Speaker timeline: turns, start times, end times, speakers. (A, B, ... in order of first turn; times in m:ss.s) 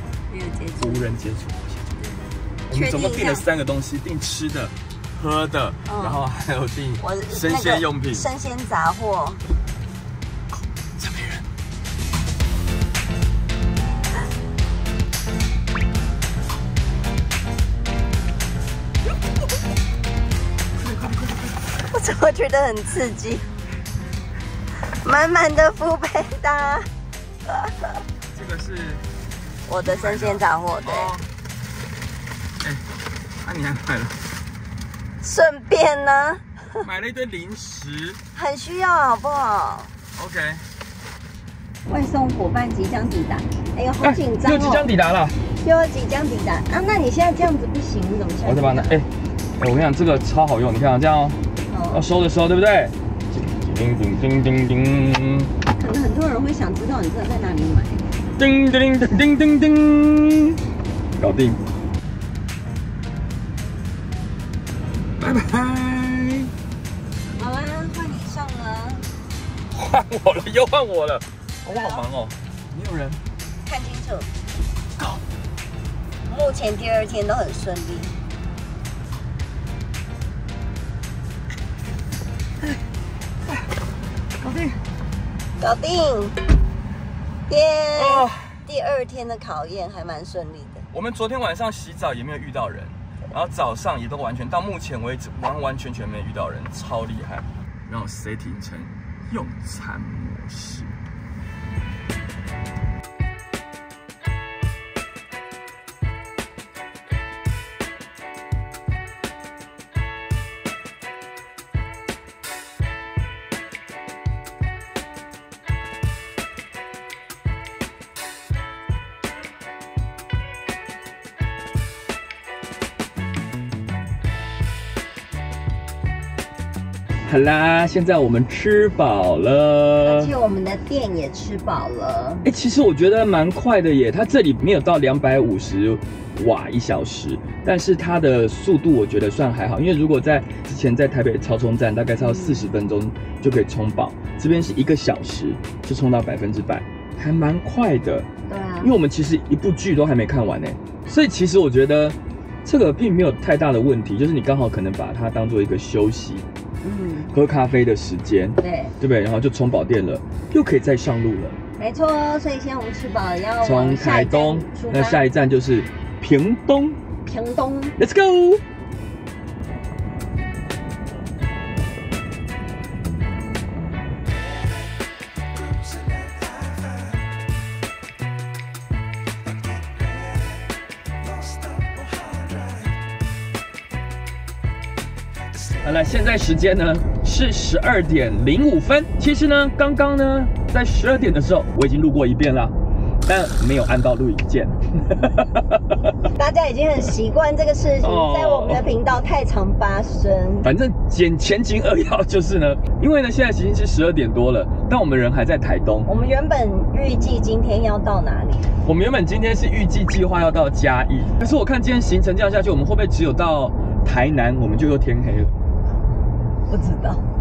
0:00.3-0:01.0 A
0:00.8-0:01.8 B
0:02.0-0:03.4 A
0:02.7-0:08.3 B
0:05.9-0:06.2 A
0:07.0-0:09.4 A
0:11.0-0:11.4 B
0:20.8-0:21.7 B
0:21.7-0:23.5 A
0:24.8-0:26.9 A
0:27.5-0:28.0 A
0:28.3-0:29.0 B
0:29.6-0:31.1 A
0:29.8-0:31.3 B
0:33.4-0:34.2 B
0:35.2-0:36.8 A
0:36.8-0:38.2 B
0:38.3-0:39.9 A
0:40.2-0:40.6 B
0:41.9-0:44.8 A
0:44.0-0:45.4 B
0:45.6-0:49.0 A
0:48.4-0:51.4 B
0:51.7-0:52.0 A
0:51.9-0:55.5 B
0:55.7-0:58.2 A
0:58.4-1:00.6 B
1:01.2-1:01.6 B
1:05.2-1:06.5 B
1:07.4-1:09.1 A
1:09.7-1:13.2 B
1:11.7-1:12.0 A
1:13.6-1:14.3 A
1:16.2-1:18.2 A
1:24.4-1:24.8 B
1:25.6-1:26.4 A
1:27.5-1:30.8 A
1:28.0-1:28.6 B
1:30.9-1:40.9 B
2:07.2-2:10.3 B
2:10.0-2:12.4 A
2:12.4-2:28.3 B
2:22.2-2:22.7 A
2:28.5-2:28.9 A
2:28.8-2:36.4 B
2:36.8-2:37.3 A
2:37.3-2:41.6 B
2:38.6-2:38.9 A
2:41.8-2:45.2 A
2:43.6-2:47.0 B
2:47.2-2:48.0 A
2:48.0-2:48.6 B
3:05.8-3:12.7 B
3:13.2-3:16.3 B
3:16.4-3:20.7 A
3:18.0-3:18.8 B
3:20.6-3:26.1 B
3:26.0-3:28.7 A
3:28.8-3:35.5 B
3:36.7-3:37.2 A